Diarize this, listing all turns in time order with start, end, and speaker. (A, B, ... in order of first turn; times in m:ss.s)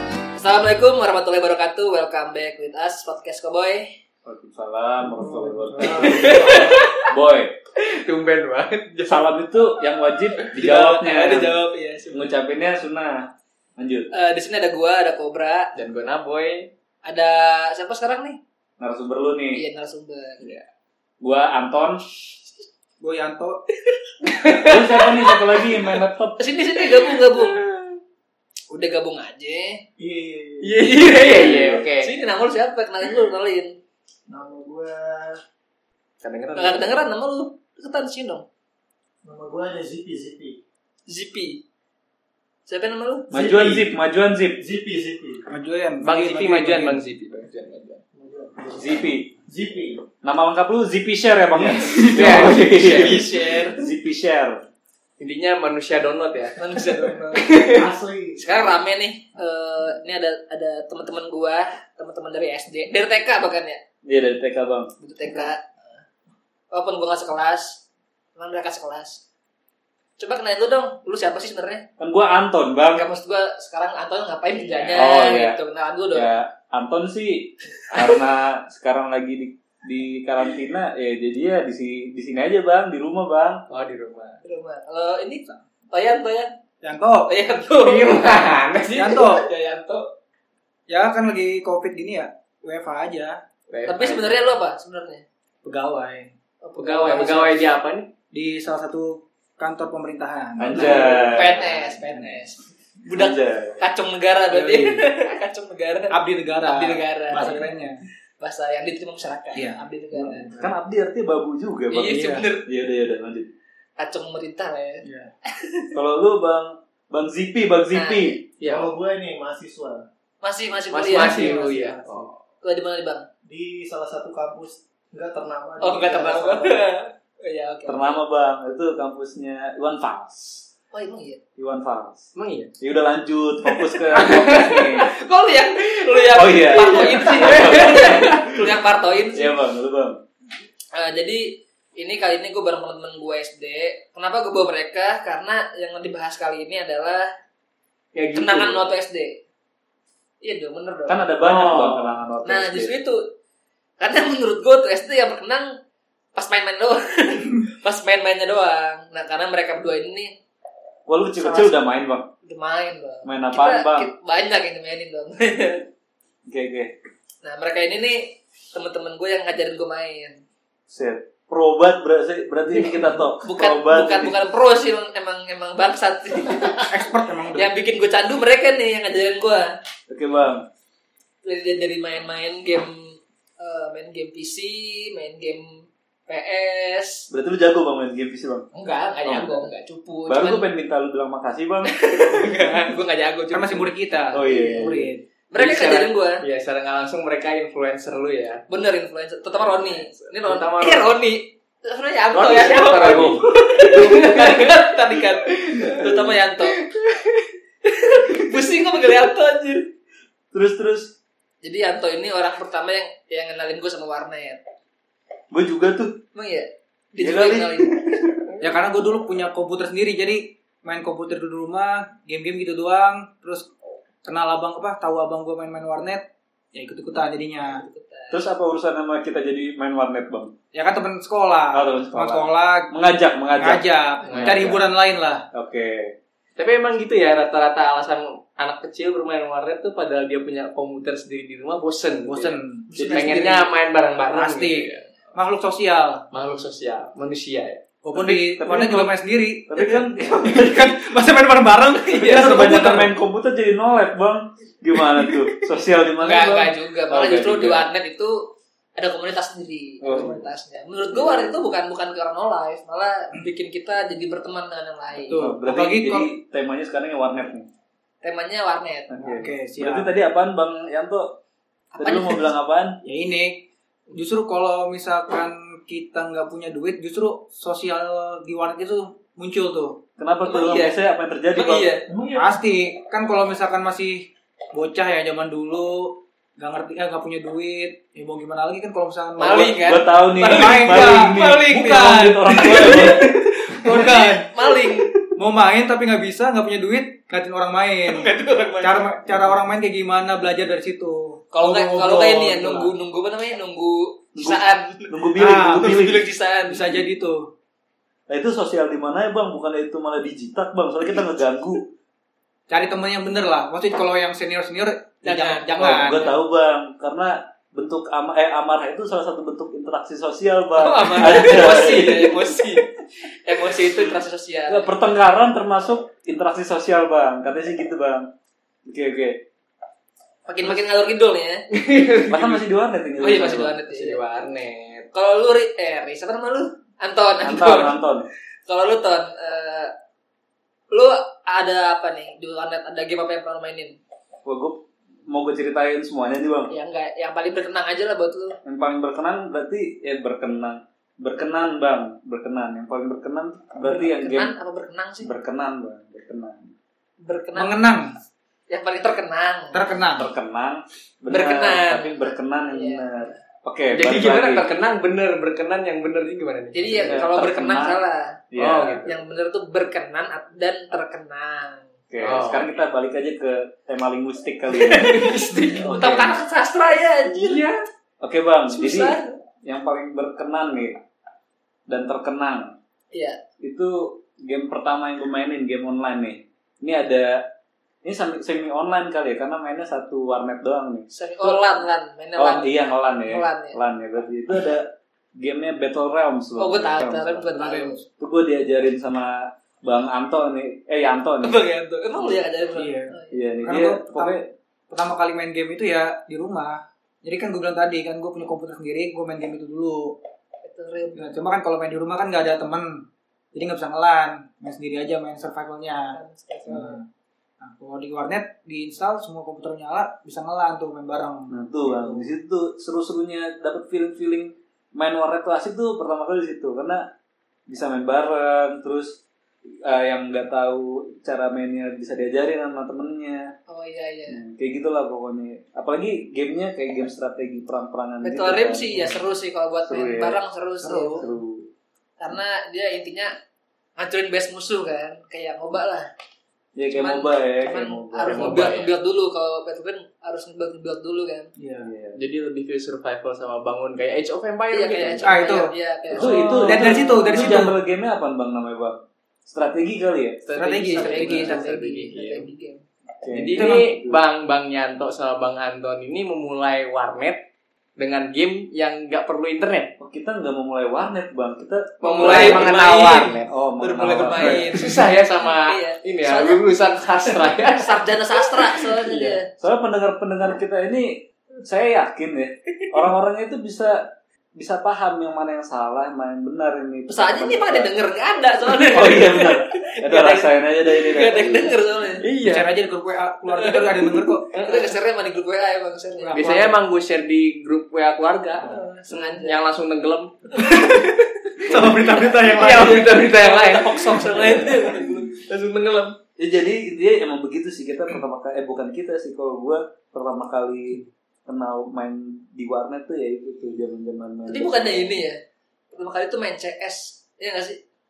0:00.4-0:03.9 A
0:04.2-0:07.6 B
0:05.2-0:06.0 C
0:05.8-0:06.8 D
0:06.0-0:07.1 E
0:07.8-0:09.3 E
0:09.0-0:11.6 B
0:10.4-0:11.5 E
0:10.6-0:12.3 A
0:12.1-0:14.1 B
0:14.1-0:15.7 A
0:15.8-0:16.7 E
0:17.0-0:18.4 A
0:18.8-0:19.6 B
0:19.5-0:20.5 A
0:21.2-0:22.3 B
0:23.0-0:23.6 C
0:24.2-0:25.6 E
0:24.4-0:26.4 B
0:26.4-0:27.6 A
0:26.8-0:28.0 E
0:28.7-0:29.8 A
0:30.0-0:31.7 D
0:30.6-0:32.1 E
0:31.3-0:31.8 B
0:32.0-0:33.8 A
0:34.3-0:35.4 D
0:36.2-0:36.9 E
0:36.6-0:38.5 A
0:39.2-0:40.6 D
0:41.1-0:41.6 A
0:42.7-0:43.3 A
0:43.3-0:44.0 D
0:43.3-0:44.6 B
0:44.6-0:45.4 D
0:45.5-0:47.0 C
0:46.0-0:48.0 E
0:48.1-0:50.0 D
0:48.8-0:49.3 B
0:50.2-0:54.6 B
0:51.6-0:52.0 D
0:51.9-0:53.6 E
0:52.8-0:53.8 A
0:55.2-0:57.9 E
0:56.6-0:57.8 A
0:57.5-0:58.4 D
0:58.4-1:03.8 A
1:04.0-1:04.9 B
1:05.0-1:05.7 A
1:06.7-1:07.8 A
1:08.4-1:09.2 A
1:10.2-1:11.9 A
1:12.0-1:13.1 B
1:12.9-1:16.4 A
1:14.6-1:15.1 E
1:15.0-1:15.6 B
1:16.1-1:23.6 B
1:23.7-1:24.4 E
1:24.4-1:26.5 A
1:26.8-1:27.3 C
1:27.3-1:30.1 A
1:27.8-1:29.3 E
1:28.1-1:29.4 C
1:30.9-1:33.4 C
1:33.7-1:34.6 E
1:33.9-1:35.2 A
1:35.6-1:36.3 C
1:36.6-1:37.7 A
1:36.8-1:38.1 E
1:37.0-1:37.5 C
1:38.3-1:42.3 C
1:40.6-1:41.6 B
1:40.7-1:47.7 A
1:43.1-1:43.8 B
1:44.5-1:45.1 C
1:46.1-1:48.0 C
1:48.4-1:50.5 A
1:49.6-1:50.7 C
1:50.5-1:53.5 B
1:51.9-1:52.7 A
1:52.0-1:52.4 C
1:54.0-1:55.9 A
1:55.0-1:55.3 C
1:55.9-1:58.4 B
1:57.9-1:58.4 A
1:58.6-1:58.9 E
1:58.6-2:00.0 D
2:00.4-2:02.0 A
2:00.9-2:02.4 E
2:01.1-2:02.3 C
2:02.6-2:03.3 A
2:03.4-2:06.9 D
2:05.8-2:08.2 A
2:07.9-2:10.7 B
2:10.9-2:11.4 A
2:11.6-2:15.1 B
2:12.4-2:12.7 E
2:14.0-2:19.6 A
2:14.1-2:14.8 E
2:16.3-2:18.7 B
2:16.6-2:18.5 E
2:19.3-2:20.2 B
2:20.9-2:27.3 A
2:28.1-2:28.8 E
2:28.4-2:29.4 A
2:30.4-2:31.3 A
2:31.1-2:33.0 B
2:31.4-2:32.2 E
2:32.4-2:33.3 A
2:34.0-2:35.8 A
2:36.4-2:40.4 A
2:41.1-2:42.3 B
2:42.4-2:45.9 A
2:43.2-2:44.1 B
2:46.5-2:46.9 B
2:47.4-2:50.4 A
2:50.9-2:54.4 B
2:53.4-2:59.7 A
2:56.9-2:57.7 C
3:00.1-3:00.7 B
3:01.4-3:07.3 A
3:07.3-3:08.7 B
3:08.7-3:10.7 A
3:09.2-3:09.7 B
3:10.3-3:12.0 B
3:11.9-3:14.9 A
3:13.5-3:15.2 C
3:14.3-3:16.1 B
3:15.5-3:16.4 A
3:16.4-3:18.6 E
3:18.7-3:26.8 A
3:19.6-3:21.1 E
3:22.4-3:23.5 B
3:22.4-3:24.7 E
3:25.6-3:25.9 E
3:25.8-3:26.4 B
3:26.8-3:27.4 E
3:27.9-3:29.9 A
3:30.5-3:31.2 B
3:31.6-3:34.6 A
3:35.5-3:36.2 B
3:36.4-3:38.0 A
3:37.2-3:38.3 B
3:38.6-3:43.7 C
3:44.2-3:47.8 C
3:47.6-3:48.4 A
3:48.3-3:50.5 B
3:50.7-3:52.9 C
3:51.7-3:54.9 B
3:53.5-3:55.4 C
3:54.3-3:54.7 E
3:55.5-3:56.2 B
3:56.6-4:05.1 E
4:02.2-4:02.9 C
4:02.9-4:03.7 A
4:03.0-4:03.4 B
4:04.3-4:06.2 C
4:06.3-4:07.8 E
4:08.0-4:13.1 C
4:08.1-4:11.0 B
4:12.2-4:17.9 B
4:16.2-4:25.4 A
4:20.0-4:20.5 B
4:21.1-4:21.6 B
4:25.3-4:26.3 C
4:25.3-4:27.7 B
4:28.2-4:29.4 A
4:29.1-4:31.4 B
4:29.2-4:30.1 C
4:32.0-4:32.5 A
4:32.0-4:33.0 B
4:33.0-4:40.0 C
4:40.2-4:41.9 B
4:40.4-4:41.0 A
4:41.5-4:42.0 A
4:42.1-4:42.6 D
4:42.3-4:49.7 C
4:49.4-4:55.1 A
4:49.4-4:53.6 B
4:50.4-4:54.5 C
4:55.4-5:03.0 C
4:58.1-4:59.1 A
5:01.5-5:06.9 A
5:04.4-5:06.3 B
5:05.4-5:06.0 C
5:06.7-5:07.5 C
5:08.3-5:11.9 B
5:12.7-5:16.4 C
5:15.2-5:16.1 A
5:15.7-5:22.4 B
5:20.8-5:22.9 A
5:23.4-5:24.9 A
5:24.7-5:28.3 B
5:28.9-5:29.4 B
5:30.5-5:31.7 A
5:31.7-5:32.6 E
5:32.3-5:33.8 B
5:33.2-5:34.2 A
5:33.9-5:35.1 E
5:35.1-5:38.0 A
5:37.4-5:38.3 B
5:38.7-5:39.9 A
5:40.9-5:44.0 A
5:44.4-5:46.7 B
5:46.7-5:48.6 A
5:48.6-5:54.5 B
5:53.8-5:55.3 A
5:55.2-5:56.7 B
5:57.2-5:58.0 A
5:57.6-5:58.2 C
5:58.7-5:59.9 A
5:59.7-6:00.3 C
6:00.1-6:04.7 B
6:01.3-6:03.4 A
6:03.9-6:07.2 E
6:06.7-6:08.4 A
6:07.0-6:08.0 B
6:08.5-6:09.0 B
6:08.6-6:09.1 E
6:09.0-6:11.9 A
6:12.1-6:16.4 B
6:12.2-6:12.7 E
6:14.8-6:17.6 A
6:15.0-6:16.0 E
6:17.4-6:17.8 E
6:18.2-6:21.0 B
6:18.7-6:19.4 A
6:21.9-6:22.8 B
6:23.1-6:23.4 A
6:23.6-6:27.5 B
6:28.0-6:31.7 B
6:31.1-6:33.8 A
6:32.4-6:37.5 B
6:36.6-6:38.0 A
6:37.6-6:38.0 C
6:38.2-6:41.6 B
6:41.4-6:43.5 A
6:42.8-6:44.4 C
6:43.3-6:44.5 B
6:44.9-6:50.2 C
6:50.6-6:51.4 A
6:51.2-6:57.1 C
6:56.1-6:57.0 A
6:57.6-7:02.3 C
7:01.5-7:07.1 B
7:07.7-7:09.2 B
7:09.8-7:13.5 B
7:13.7-7:14.4 A
7:14.3-7:19.2 B
7:18.2-7:21.3 A
7:19.9-7:20.4 B
7:20.8-7:21.3 C
7:21.2-7:21.7 B
7:22.2-7:23.3 A
7:24.0-7:26.1 A
7:26.8-7:28.6 B
7:26.9-7:31.5 A
7:28.2-7:29.0 E
7:31.6-7:31.9 C
7:31.8-7:32.2 B
7:32.2-7:35.3 E
7:34.7-7:37.0 A
7:35.2-7:37.8 C
7:36.1-7:40.4 B
7:36.6-7:37.0 E
7:40.5-7:42.5 E
7:40.6-7:41.7 C
7:40.9-7:42.8 A
7:43.2-7:44.2 B
7:43.3-7:47.5 E
7:43.5-7:43.9 C
7:48.0-7:49.9 E
7:50.0-7:52.7 B
7:52.0-7:53.5 E
7:52.0-7:56.7 A
7:53.0-7:53.3 C
7:53.4-7:54.8 B
7:54.1-7:59.4 E
7:57.2-7:59.5 A
7:59.6-8:07.9 B
8:07.1-8:12.2 A
8:08.9-8:11.8 B
8:12.2-8:12.8 E
8:12.4-8:14.6 C
8:13.5-8:16.4 A
8:14.5-8:14.9 E
8:16.2-8:16.8 C
8:16.3-8:21.1 E
8:18.6-8:19.6 A
8:20.6-8:23.2 C
8:21.7-8:26.2 E
8:21.7-8:25.4 A
8:24.3-8:24.7 B
8:26.4-8:35.2 B
8:34.5-8:35.4 A
8:35.9-8:37.8 A